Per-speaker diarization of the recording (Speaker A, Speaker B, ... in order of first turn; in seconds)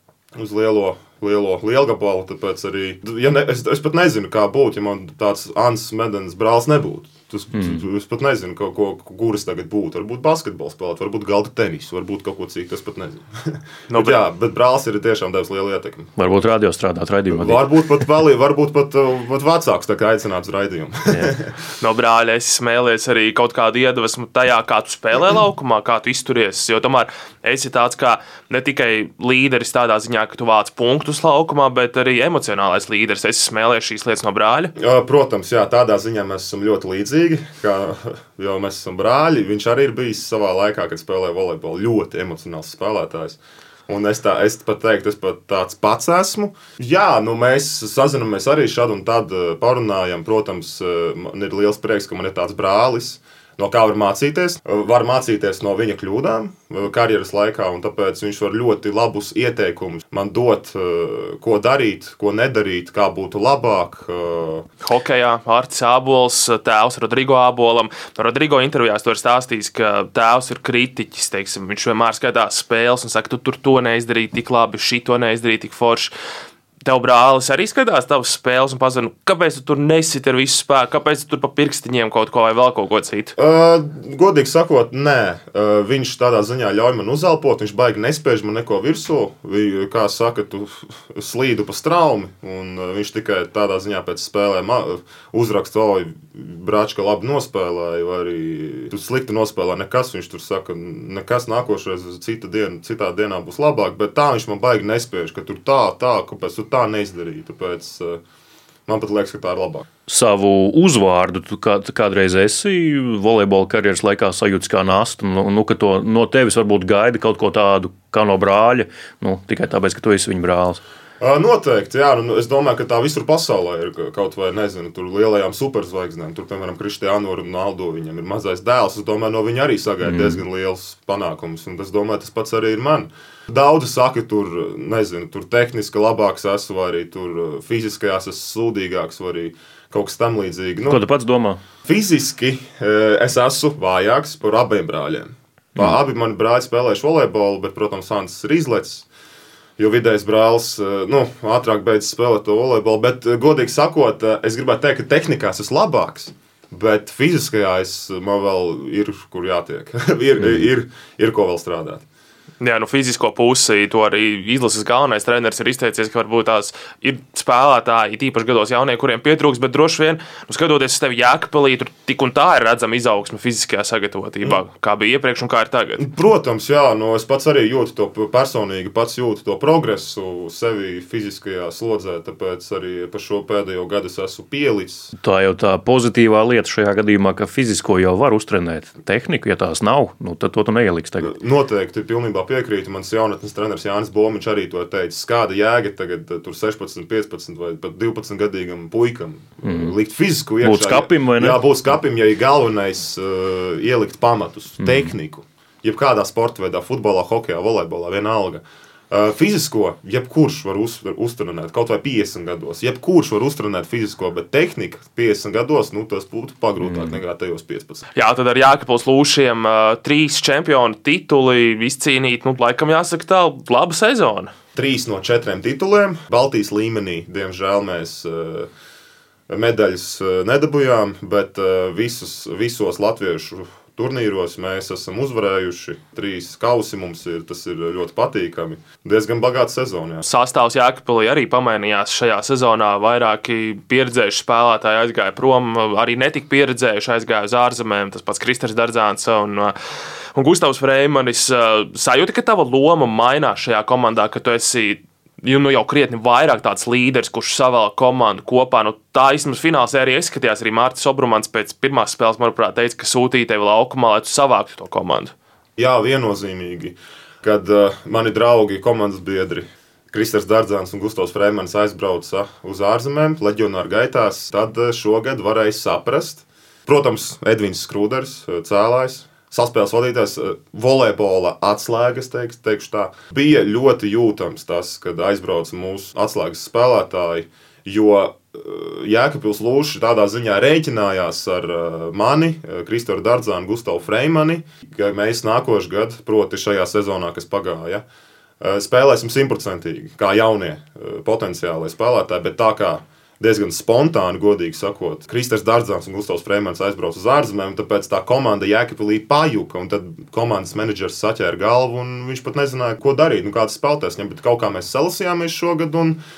Speaker A: 0.3-16.1, 17.3-21.5, 34.8-64.7, 83.4-108.2, 108.9-109.9, 121.2-141.0, 141.9-149.1, 149.8-162.1, 176.0-185.1, 191.2-218.1, 224.8-228.7, 229.5-240.2, 265.8-298.0, 298.6-316.2
Speaker B: 7.5-7.8, 16.2-17.7, 110.1-120.8, 130.0-130.4, 140.9-141.6, 160.4-160.7, 185.2-191.3, 199.6-199.9, 200.6-201.6, 204.8-205.1, 216.8-217.2
Speaker C: 13.9-14.2, 21.8-34.7, 64.8-76.1, 76.8-83.3, 162.6-176.1, 218.2-224.5, 240.2-249.8, 250.3-265.3